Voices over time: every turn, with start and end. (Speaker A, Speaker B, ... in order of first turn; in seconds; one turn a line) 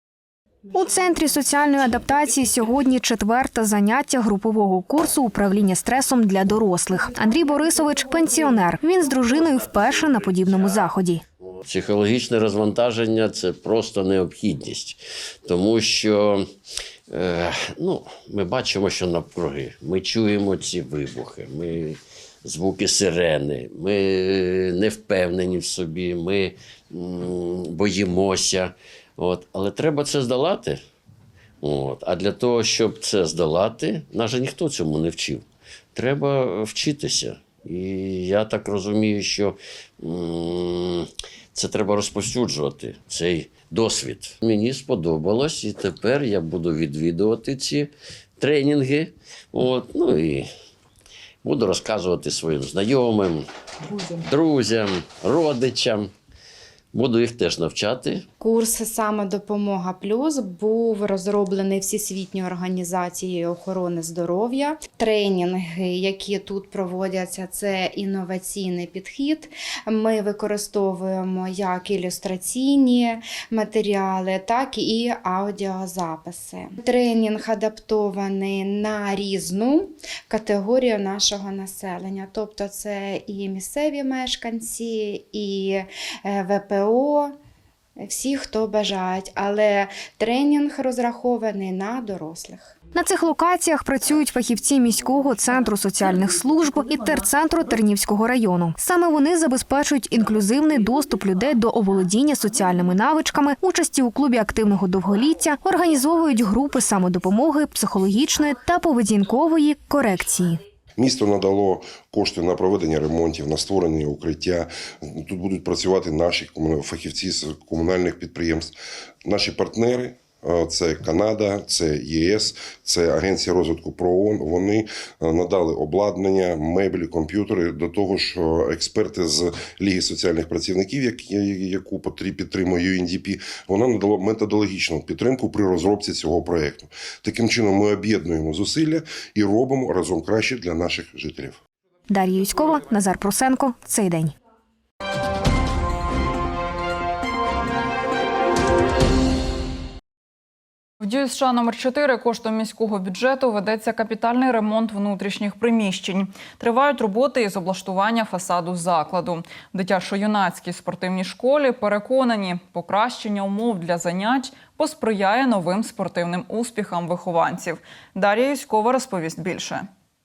Speaker A: 0.7-11.2
Speaker B: 11.6-16.5
Speaker B: 17.1-30.8
Speaker B: 31.6-50.5
Speaker B: 51.4-53.5
Speaker B: 54.2-56.1
Speaker B: 56.9-58.3
Speaker C: 58.4-87.4
Speaker C: 88.0-92.7
Speaker A: 93.0-110.6
Speaker D: 111.0-118.7
Speaker D: 119.2-141.6
Speaker A: 142.1-144.3
Speaker E: 151.0-169.9